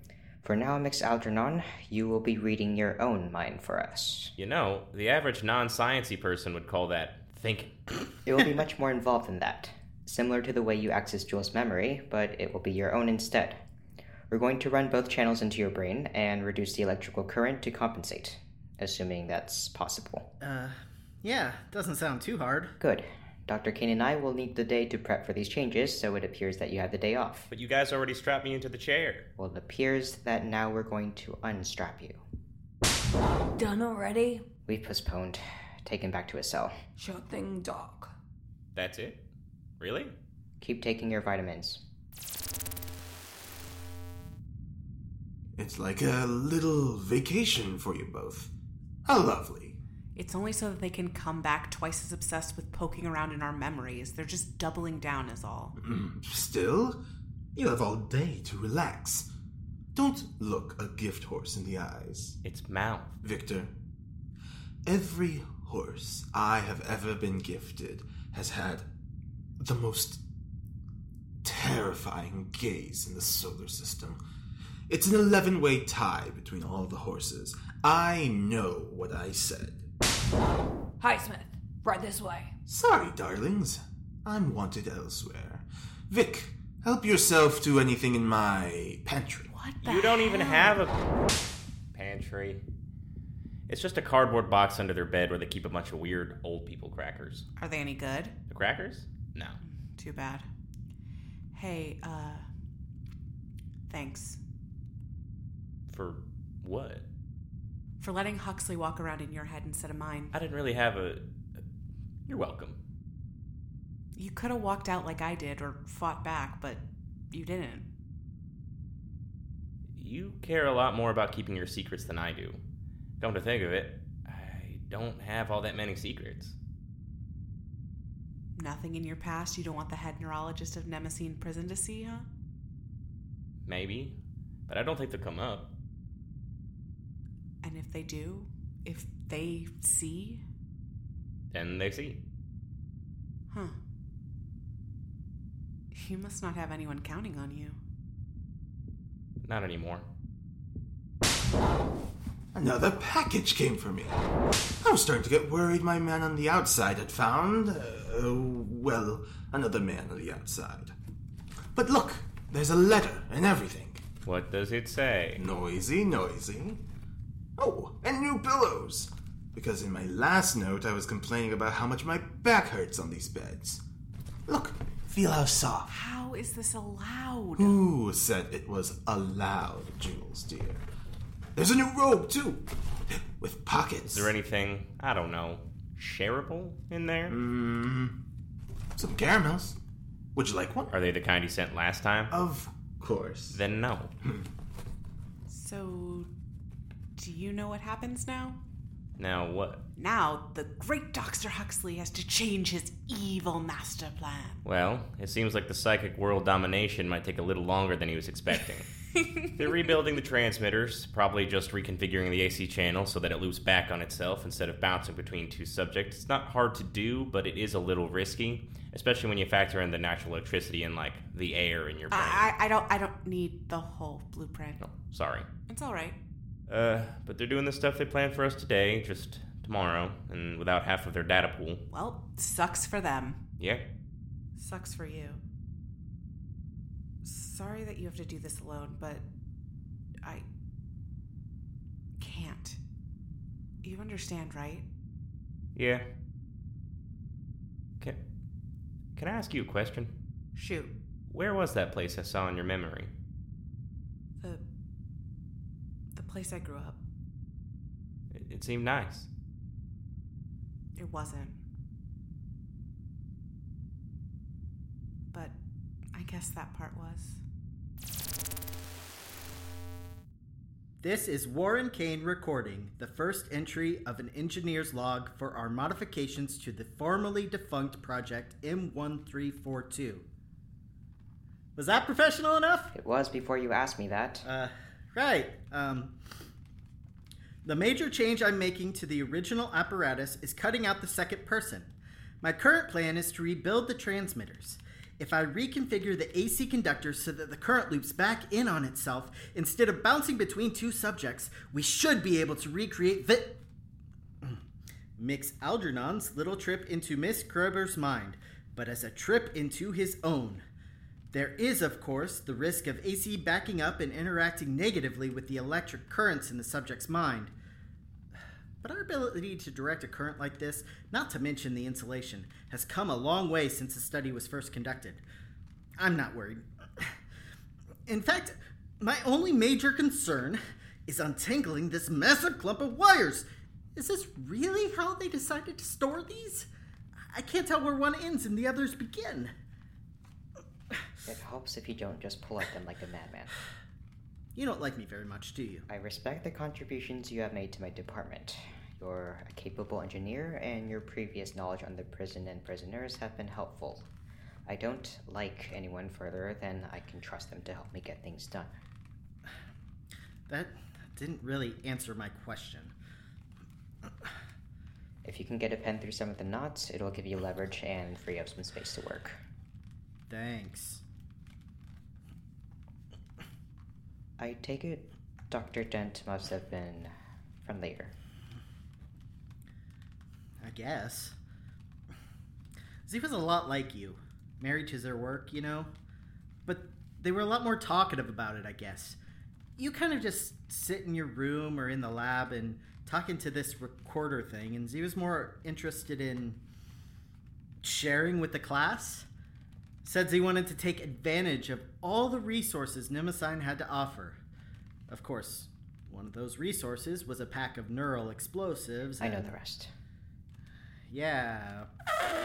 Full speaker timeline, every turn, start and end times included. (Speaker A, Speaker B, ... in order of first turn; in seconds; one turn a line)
Speaker A: 0.4-4.3
Speaker B: 4.4-7.7
Speaker A: 8.2-13.6
Speaker A: 14.3-20.2
Speaker C: 20.4-22.7
Speaker A: 22.8-27.5
Speaker B: 27.5-29.2
Speaker A: 29.4-32.2
Speaker D: 33.6-34.4
Speaker A: 34.7-36.7
Speaker D: 37.0-38.1
Speaker B: 38.7-39.2
Speaker B: 39.8-40.1
Speaker A: 40.6-41.8
Speaker E: 45.6-48.5
Speaker E: 49.0-49.8
Speaker F: 50.1-55.7
Speaker E: 55.8-57.0
Speaker E: 57.5-59.3
Speaker E: 59.9-62.4
Speaker B: 62.4-63.1
Speaker E: 63.2-63.7
Speaker E: 64.8-68.8
Speaker E: 69.6-70.2
Speaker E: 71.4-74.2
Speaker E: 74.9-79.8
Speaker D: 81.0-82.4
Speaker E: 82.7-89.5
Speaker F: 89.5-90.7
Speaker B: 89.8-90.9
Speaker B: 91.9-92.6
Speaker B: 93.7-97.5
Speaker F: 97.6-98.4
Speaker B: 98.5-99.6
Speaker F: 99.6-100.5
Speaker F: 101.5-102.5
Speaker F: 103.9-104.4
Speaker B: 105.9-107.0
Speaker F: 108.0-110.3
Speaker B: 110.3-111.2
Speaker B: 112.3-112.8
Speaker F: 114.2-117.8
Speaker B: 120.0-122.6
Speaker B: 123.2-126.5
Speaker F: 128.6-132.3
Speaker B: 133.7-134.2
Speaker B: 134.7-135.7
Speaker F: 137.6-140.4
Speaker B: 141.5-142.2
Speaker F: 143.5-143.8
Speaker F: 145.9-147.8
Speaker B: 149.4-150.0
Speaker E: 152.5-154.2
Speaker E: 154.8-160.9
Speaker E: 161.7-164.0
Speaker B: 164.2-165.4
Speaker E: 165.3-166.8
Speaker E: 167.6-173.8
Speaker E: 174.5-175.9
Speaker F: 175.9-177.7
Speaker E: 177.6-180.8
Speaker E: 181.6-184.3
Speaker B: 184.0-187.4
Speaker E: 187.3-188.1
Speaker E: 188.9-189.8
Speaker E: 190.3-190.9
Speaker B: 190.9-192.3
Speaker E: 192.3-193.6
Speaker B: 193.5-194.1
Speaker F: 195.5-196.3
Speaker F: 197.2-198.6
Speaker B: 199.2-199.8
Speaker F: 199.9-204.6
Speaker B: 204.6-209.0
Speaker F: 209.2-209.4
Speaker B: 209.6-222.5
Speaker F: 222.1-224.8
Speaker B: 224.8-225.5
Speaker F: 225.7-226.2
Speaker B: 226.7-231.8
Speaker F: 231.9-233.4
Speaker B: 233.6-233.8
Speaker F: 234.6-235.4
Speaker F: 237.2-239.2
Speaker F: 242.2-242.8
Speaker F: 243.8-244.8
Speaker B: 245.8-246.0
Speaker B: 249.2-250.1
Speaker F: 250.5-250.9
Speaker B: 251.3-253.1
Speaker F: 256.1-257.0
Speaker B: 258.3-259.3
Speaker F: 260.9-261.6
Speaker F: 266.1-267.4
Speaker C: 271.0-280.2
Speaker C: 281.8-282.9
Speaker A: 282.9-284.4
Speaker C: 284.4-286.1
Speaker C: 287.6-303.6
Speaker C: 305.2-310.6
Speaker C: 311.3-317.5
Speaker C: 318.8-325.2
Speaker C: 326.0-327.1
Speaker C: 328.1-336.7
Speaker C: 337.3-339.5
Speaker A: 341.2-343.5
Speaker C: 344.5-345.9
Speaker A: 345.9-354.1
Speaker A: 354.7-358.7
Speaker C: 360.5-362.9
Speaker A: 365.2-369.4
Speaker C: 370.3-371.0
Speaker A: 374.4-377.1
Speaker A: 377.6-378.1
Speaker C: 380.6-381.3
Speaker C: 383.1-385.9
Speaker C: 386.6-389.2
Speaker C: 389.8-396.6
Speaker C: 397.8-399.2
Speaker C: 400.0-404.4
Speaker C: 405.1-409.5
Speaker A: 409.2-409.9
Speaker C: 411.1-411.9